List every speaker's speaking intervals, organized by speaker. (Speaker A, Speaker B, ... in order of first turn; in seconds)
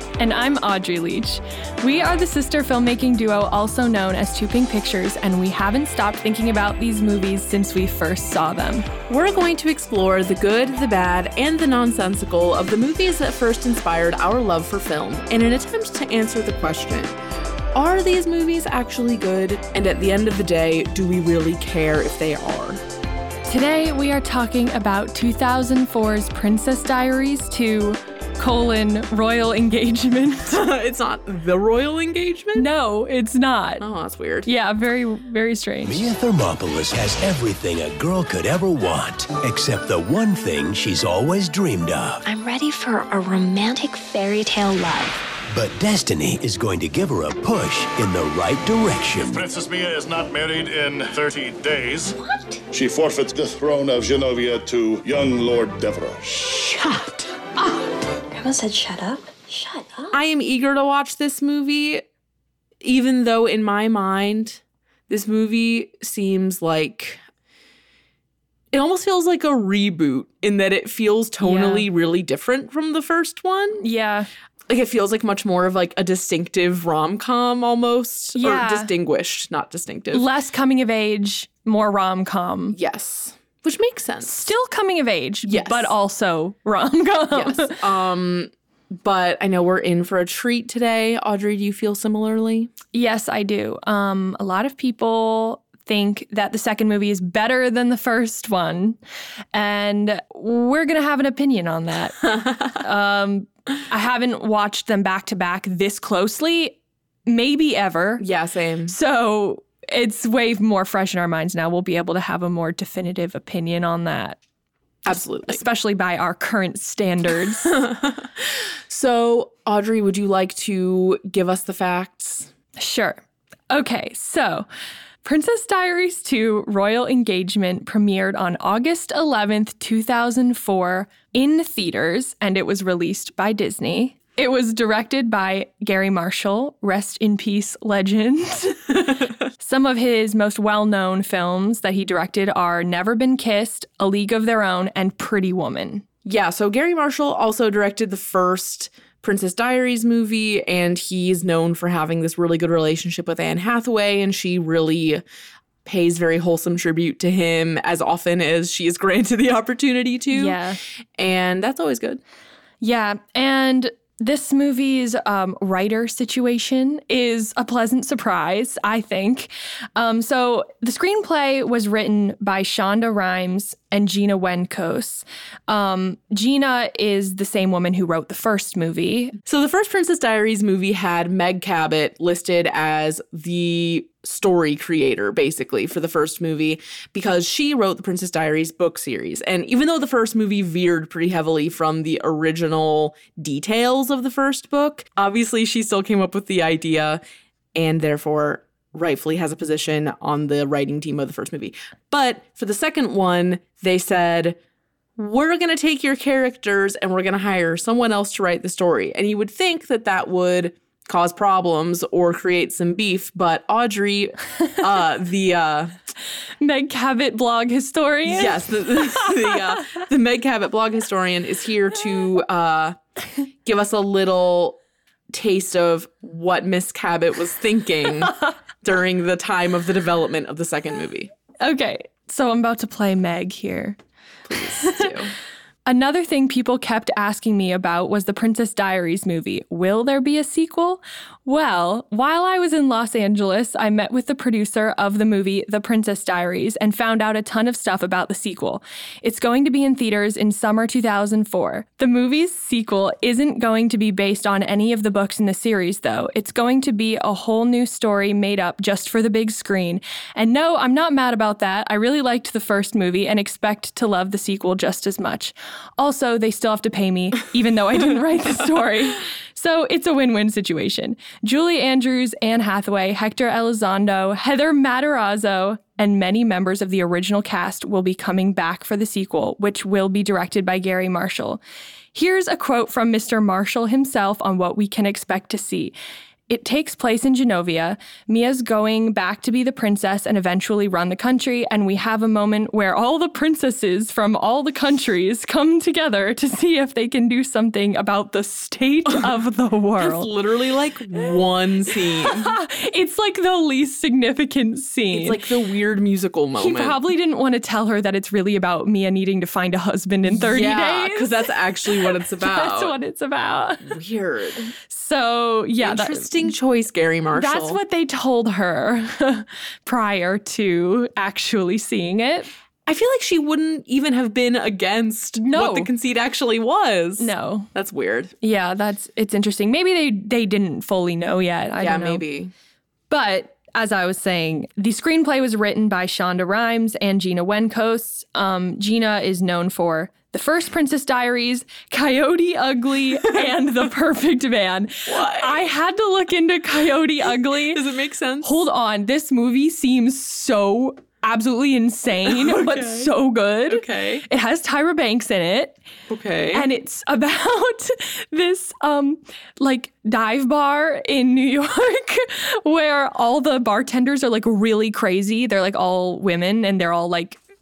Speaker A: 0.2-8.9, 23.5-30.6, 32.5-33.8, 34.4-36.1, 71.4-71.9, 73.8-74.3, 78.3-78.9, 80.1-82.8, 84.2-87.8, 92.9-99.0, 99.5-108.2, 108.9-114.4, 115.1-117.8, 122.8-123.2, 123.7-124.7, 125.2-146.0, 160.3-160.8, 162.8-179.4, 216.6-219.5, 231.6-234.0, 234.8-235.1, 235.8-281.6, 282.1-285.9, 286.5-300.3, 302.2-305.4, 306.6-314.0, 314.9-316.5, 317.3-322.5, 325.4-325.9, 327.2-327.7, 328.4-332.2, 333.1-347.8, 348.4-355.8, 356.5-367.4
Speaker B: 9.1-17.2, 17.7-22.8, 30.5-32.7, 33.8-34.5, 56.2-57.3, 60.1-62.0, 62.8-67.2, 68.7-73.8, 74.7-80.2, 82.7-84.4, 85.4-85.9, 87.3-92.7, 102.2-102.7, 108.2-108.9, 115.0-115.6, 117.6-122.5, 146.2-155.2, 155.8-160.6, 161.2-162.2, 179.4-197.2, 197.7-204.6, 205.2-216.0, 218.2-223.0, 223.6-224.8, 225.3-231.3, 234.5-235.3, 300.0-302.6, 305.1-307.0, 310.2-312.9, 313.8-314.7, 315.8-317.8, 322.9-328.3, 331.8-332.5, 345.1-345.7, 347.7-348.6, 352.2-353.1, 353.7-354.2, 356.1-356.6
Speaker C: 35.8-42.2, 45.5-49.4
Speaker D: 42.2-45.2, 52.1-52.6, 57.6-60.1
Speaker E: 49.2-52.1, 52.7-56.2